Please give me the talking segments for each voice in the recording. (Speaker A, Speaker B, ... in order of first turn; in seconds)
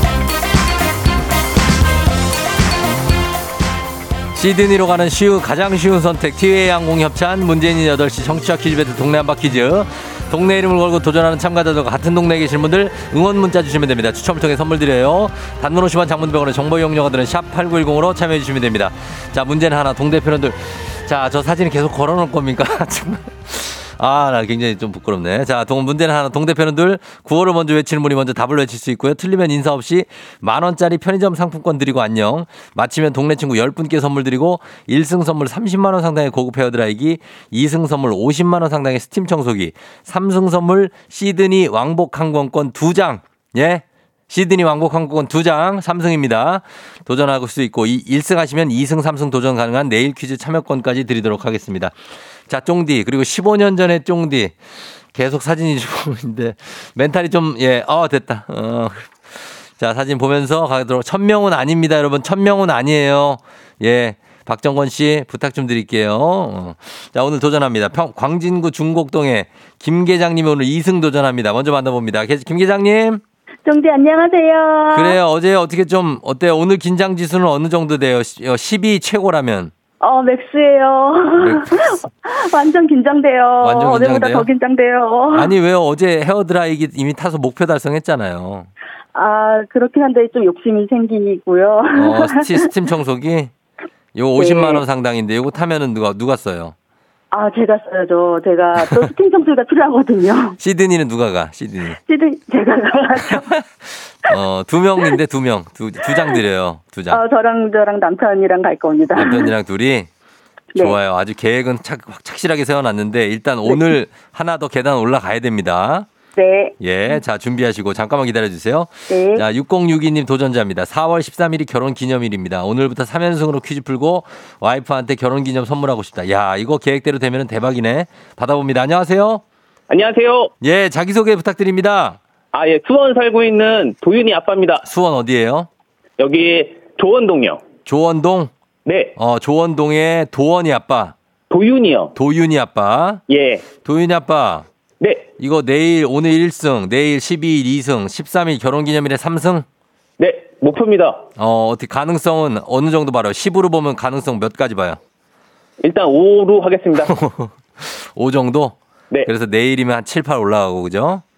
Speaker A: 4.3-51.9, 52.5-54.6, 55.1-73.2, 74.9-79.7, 81.4-82.0, 83.6-84.5, 85.3-88.7, 91.9-93.5, 94.2-96.8, 98.8-99.1, 100.6-102.0, 103.3-107.2, 109.1-110.1, 110.8-116.1, 116.8-129.4, 130.6-132.2, 134.8-135.7, 137.9-138.5, 139.2-141.1, 142.2-143.2, 143.8-144.7, 145.4-149.7, 151.4-155.0, 157.0-161.2
Speaker B: 73.7-75.2, 80.0-85.5, 89.2-92.7, 94.4-94.8, 97.3-100.6, 102.1-103.5, 107.1-109.5, 113.7-113.9, 116.4-117.2, 119.1-119.5
Speaker C: 129.9-130.5, 132.5-134.8, 136.2-137.6, 138.9-139.2, 141.5-142.1, 143.3-143.7, 145.0-145.3, 150.2-151.2, 155.8-157.1